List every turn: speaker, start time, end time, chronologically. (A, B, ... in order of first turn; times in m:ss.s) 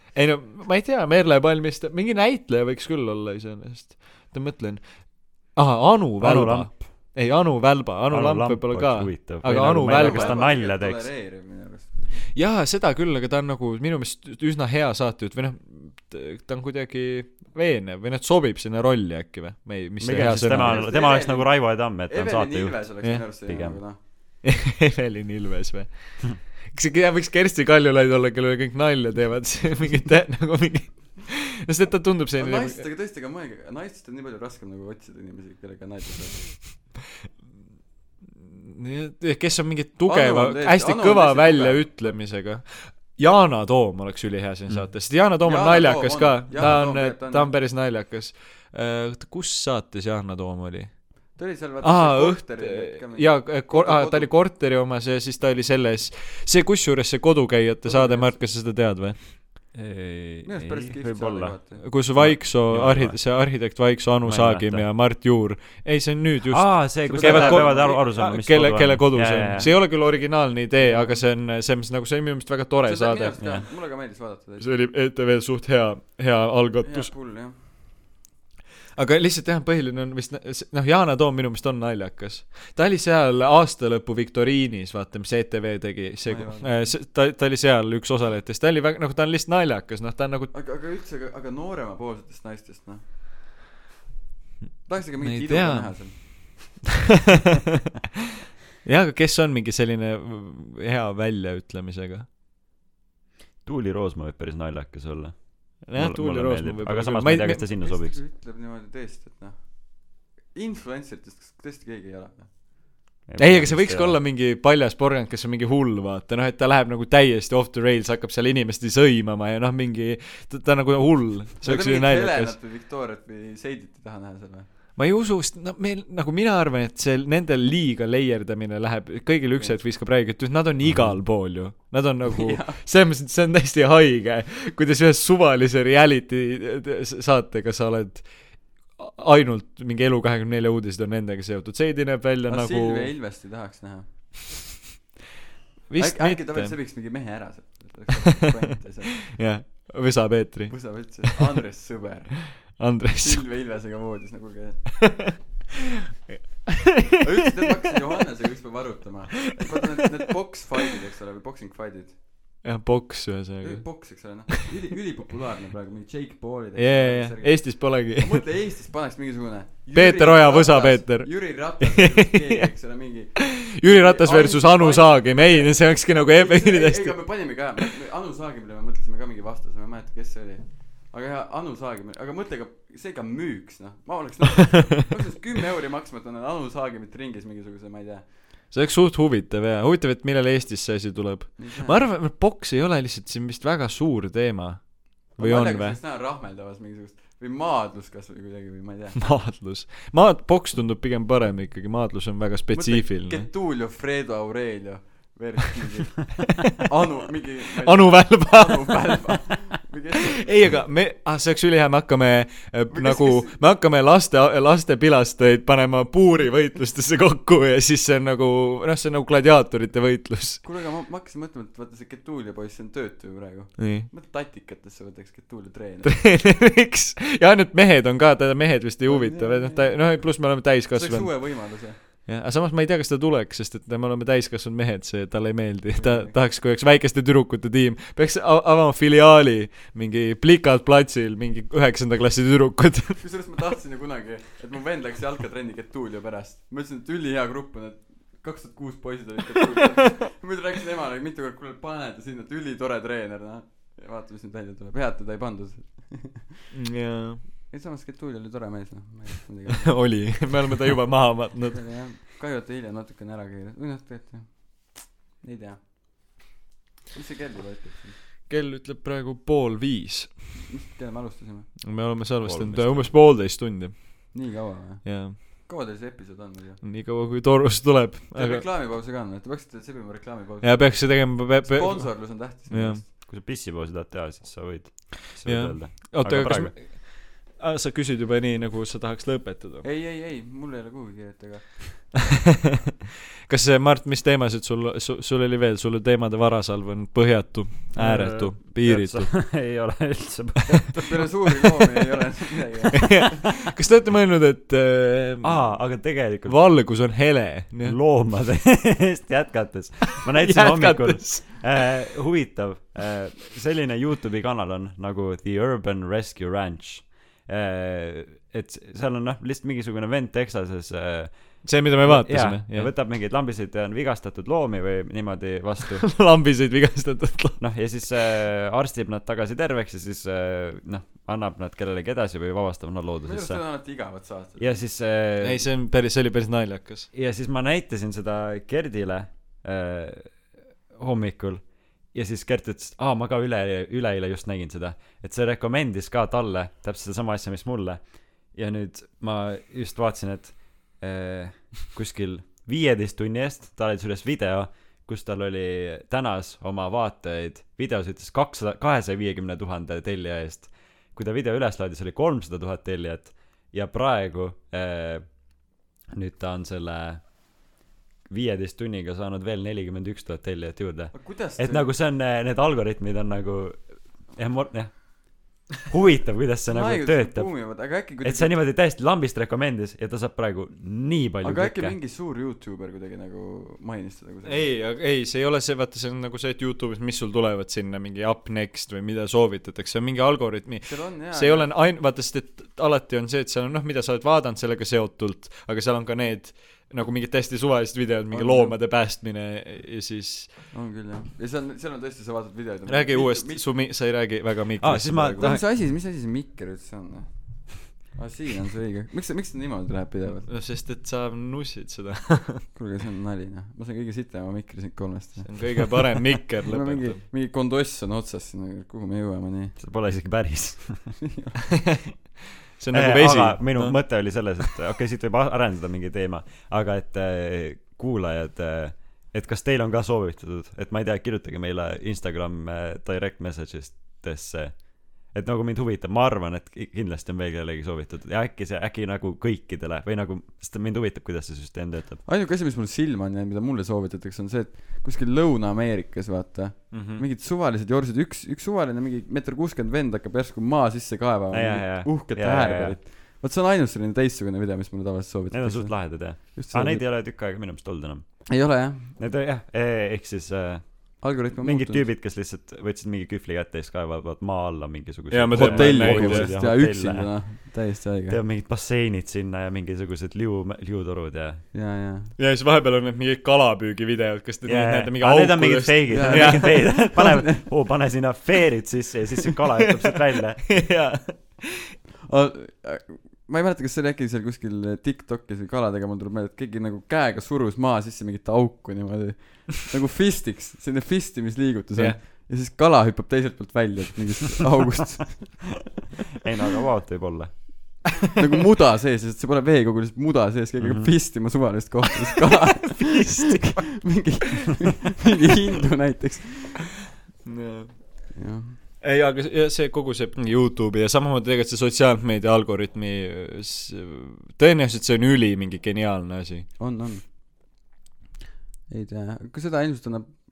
0:00.1-0:10.4 A
0:06.2-0:07.2 B
0:08.1-0:11.1 B
0:09.4-0:12.3 C
0:12.3-0:20.9 A
0:20.0-0:23.8 B
0:20.5-0:24.0 C
0:24.4-0:32.8 A
0:32.4-0:36.7 C
0:38.7-0:59.4 A
0:40.0-0:42.2 C
0:45.4-0:47.5 C
0:51.3-0:54.3 C
0:57.8-0:58.4 C
0:59.7-1:03.7 B
1:00.4-1:01.8 C
1:01.8-1:13.4 A
1:04.2-1:04.9 B
1:06.5-1:09.7 B
1:07.0-1:08.0 C
1:10.8-1:11.2 C
1:12.8-1:14.6 C
1:13.4-1:13.6 B
1:14.6-1:17.1 A
1:16.8-1:17.5 C
1:19.0-1:30.5 A
1:26.2-1:27.0 C
1:30.5-1:33.0 C
1:34.8-1:36.8 C
1:35.2-1:36.7 A
1:38.8-1:42.2 A
1:43.6-1:48.2 B
1:45.8-1:47.6 A
1:47.4-1:52.6 C
1:53.2-1:54.2 B
1:53.4-2:02.6 A
2:01.6-2:04.7 C
2:05.0-2:23.1 A
2:10.8-2:11.2 B
2:12.3-2:12.8 C
2:22.5-2:24.4 C
2:25.9-2:26.8 A
2:26.0-2:29.3 C
2:29.3-2:31.4 A
2:30.7-2:35.4 C
2:32.5-2:33.4 A
2:36.9-2:37.2 A
2:37.2-2:42.2 C
2:42.6-2:44.6 A
2:43.6-3:08.2 C
2:46.8-2:48.4 A
2:49.9-2:52.7 A
2:53.4-2:57.8 A
3:08.7-3:16.0 A
3:11.6-3:12.0 C
3:15.4-3:19.2 C
3:19.2-3:23.5 A
3:22.7-3:30.5 C
3:27.8-3:29.6 A
3:30.3-3:40.6 A
3:32.9-3:33.6 C
3:40.6-3:46.4 C
3:43.8-3:44.1 A
3:46.0-4:03.2 A
3:49.0-3:52.0 C
3:55.9-3:56.4 C
4:03.2-4:16.5 C
4:16.7-4:17.4 A
4:17.7-4:20.5 C
4:19.8-4:21.9 A
4:21.7-4:25.8 C
4:27.1-4:28.2 C
4:28.5-4:30.5 A
4:30.7-4:31.8 C
4:31.8-4:35.4 A
4:32.4-4:33.1 B
4:34.3-4:36.8 C
4:36.8-4:38.6 A
4:38.3-4:43.0 C
4:40.6-4:43.0 A
4:43.2-4:46.7 B
4:45.4-4:49.9 A
4:49.8-4:52.2 C
4:53.5-4:59.4 A
4:57.9-5:01.5 B
5:00.7-5:03.5 C
5:03.0-5:08.0 A
5:05.4-5:06.8 B
5:07.8-5:26.1 B
5:10.3-5:11.7 A
5:21.6-5:22.9 A
5:26.0-5:27.6 A
5:27.6-5:33.8 B
5:33.2-5:34.8 C
5:34.6-5:35.7 B
5:35.4-5:37.1 A
5:37.1-6:07.4 B
6:08.2-6:22.0 B
6:11.1-6:11.9 C
6:16.7-6:18.6 C
6:21.4-6:24.7 C
6:24.4-6:40.5 A
6:30.8-6:31.7 C
6:38.3-6:38.8 C
6:40.7-6:43.6 C
6:42.9-6:45.5 A
6:44.8-6:45.6 B
6:45.4-6:50.5 C
6:50.4-6:52.6 A
6:52.7-6:55.9 C
6:55.4-6:57.2 A
6:56.6-6:59.8 C
6:59.8-7:01.2 B
7:01.2-7:01.6 C
7:02.1-7:04.5 A
7:02.9-7:22.2 B
7:22.2-7:37.0 C
7:26.9-7:27.2 B
7:31.5-7:33.0 B
7:35.5-7:51.6 B
7:38.5-7:39.1 C
7:41.2-7:42.1 C
7:45.3-7:46.5 A
7:45.5-7:48.4 C
7:51.7-7:52.3 C
7:52.4-7:57.0 A
7:54.6-8:00.8 B
7:56.1-7:57.6 C
8:00.7-8:01.9 A
8:02.3-8:15.8 C
8:16.4-8:17.6 B
8:18.4-8:26.9 C
8:20.8-8:21.1 B
8:23.0-8:24.2 A
8:27.4-8:28.3 A
8:28.3-8:28.8 C
8:29.0-8:36.7 A
8:36.8-8:37.2 C
8:38.9-8:40.3 C